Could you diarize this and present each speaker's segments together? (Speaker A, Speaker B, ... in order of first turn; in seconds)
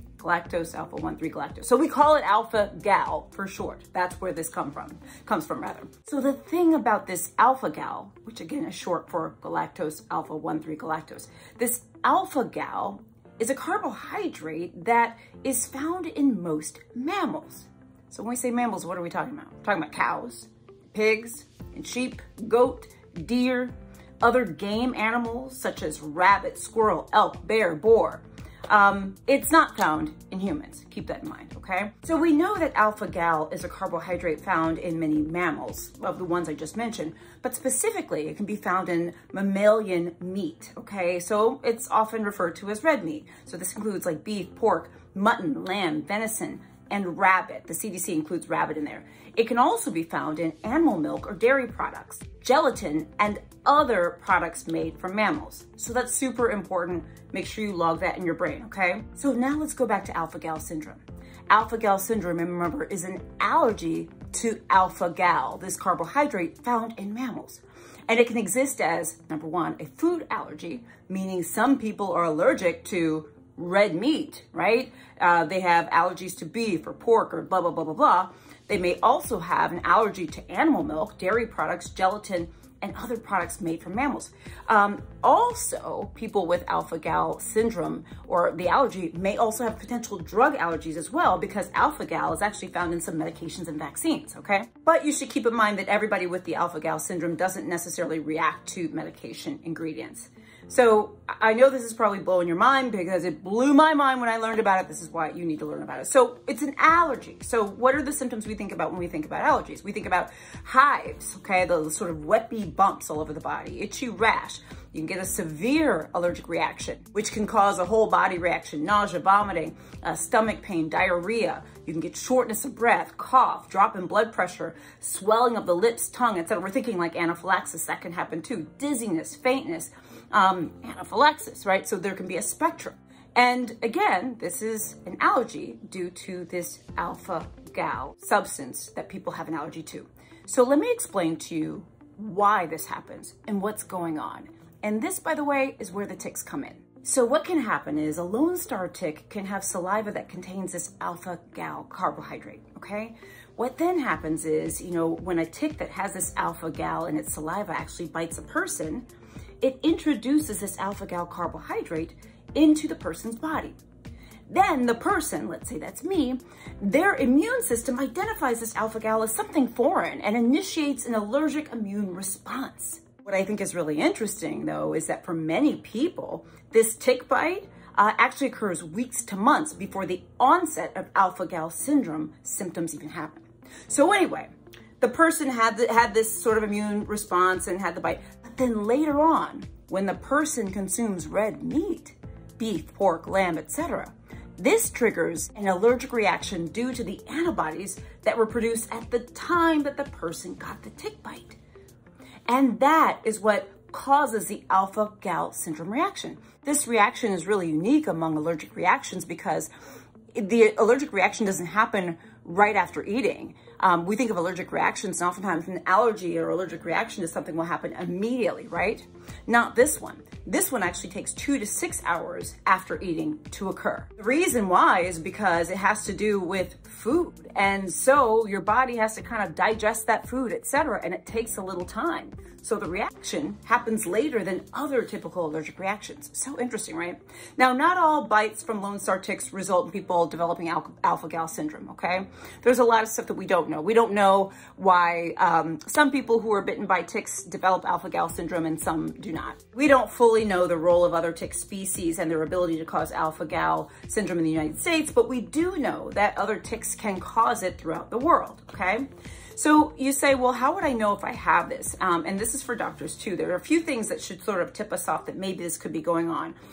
Speaker A: 0.2-159.1, 159.6-163.8, 164.5-201.6, 202.5-209.7, 210.3-266.5